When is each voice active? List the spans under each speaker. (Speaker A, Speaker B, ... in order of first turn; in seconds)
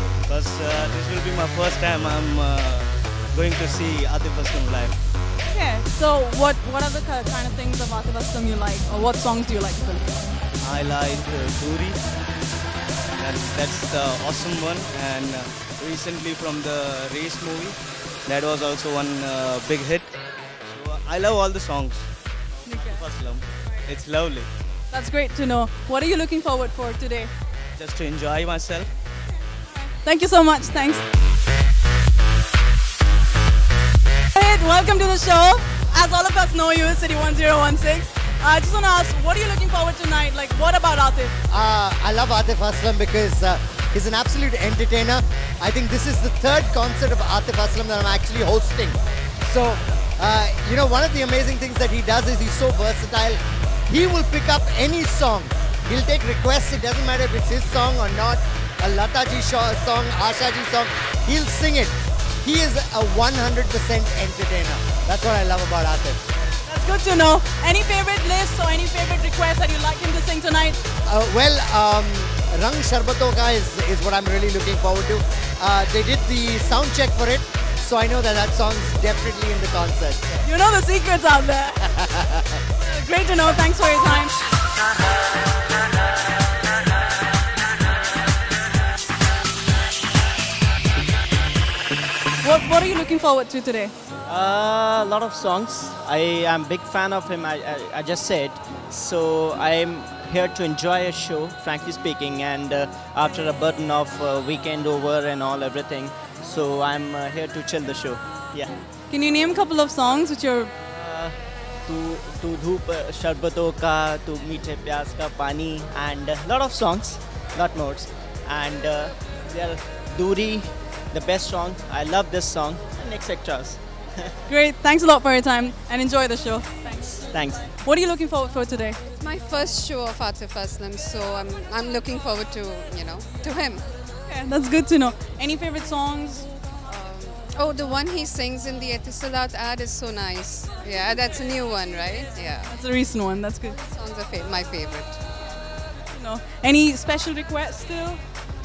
Speaker A: 0.2-5.0, 10.6-12.0, 13.2-20.1, 20.7-22.1, 22.7-24.5, 27.8-28.9
Speaker B: 5.5-10.1, 22.7-23.0, 24.9-27.3, 29.7-31.0, 34.4-41.3, 66.7-70.8, 80.4-81.8, 82.8-84.3, 92.4-93.9, 109.1-110.7, 124.5-127.1, 127.8-129.0, 134.3-136.5, 142.7-143.8, 146.1-148.2
Speaker C: 41.5-66.2, 71.1-80.4, 82.0-82.4
Speaker D: 94.3-108.8, 110.9-123.8, 127.3-127.6
Speaker E: 129.1-133.8, 136.9-142.7, 143.8-145.2